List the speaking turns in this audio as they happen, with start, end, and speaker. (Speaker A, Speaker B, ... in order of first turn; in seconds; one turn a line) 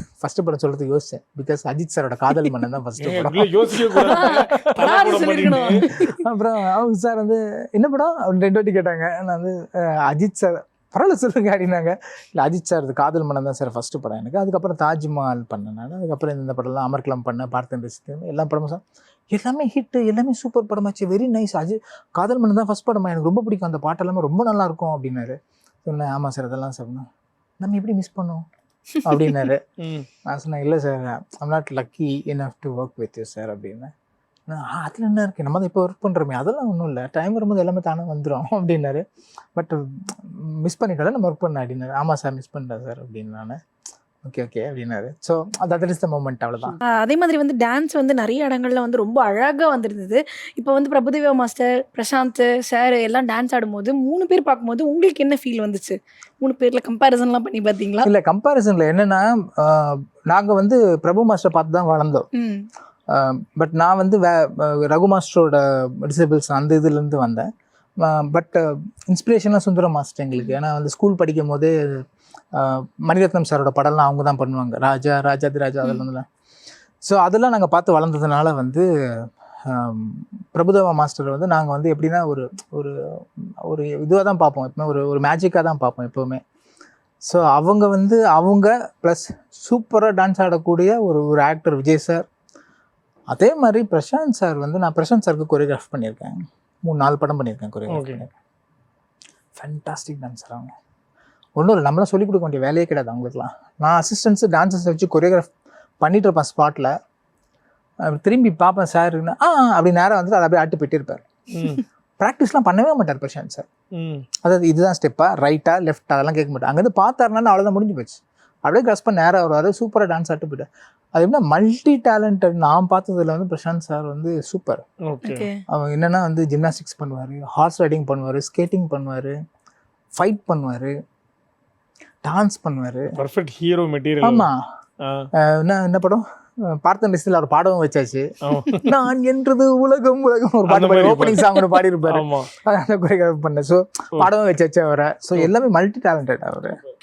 Speaker A: 0.2-27.1
Speaker B: 3.0-6.2
Speaker C: 4.0-6.2
Speaker A: 27.6-28.5
Speaker A: 29.0-29.6
Speaker B: 29.8-30.1
Speaker A: 30.3-33.9
Speaker A: 34.5-39.0
Speaker A: 39.6-43.6
Speaker A: 44.2-46.8
Speaker C: 46.7-58.1
Speaker A: 58.0-62.3
Speaker C: 62.3-62.7
Speaker A: 63.1-67.5
Speaker A: 68.0-72.0
Speaker A: 72.5-76.3
Speaker A: 77.0-86.4
Speaker A: 87.2-92.3
Speaker A: 93.3-98.3
Speaker B: 97.9-98.2
Speaker A: 99.5-100.7
Speaker A: 101.6-107.0
Speaker A: 108.0-111.2
Speaker B: 111.5-111.8
Speaker A: 112.2-113.7
Speaker B: 114.0-114.3
Speaker A: 114.4-124.8
Speaker B: 125.1-125.5
Speaker C: 125.2-125.6
Speaker A: 125.7-129.3
Speaker A: 130.2-130.9
Speaker A: 132.2-133.2
Speaker B: 133.2-134.5
Speaker A: 134.2-134.6
Speaker B: 135.0-135.3
Speaker A: 135.3-146.8
Speaker B: 138.4-138.9
Speaker B: 140.7-141.5
Speaker B: 142.1-142.5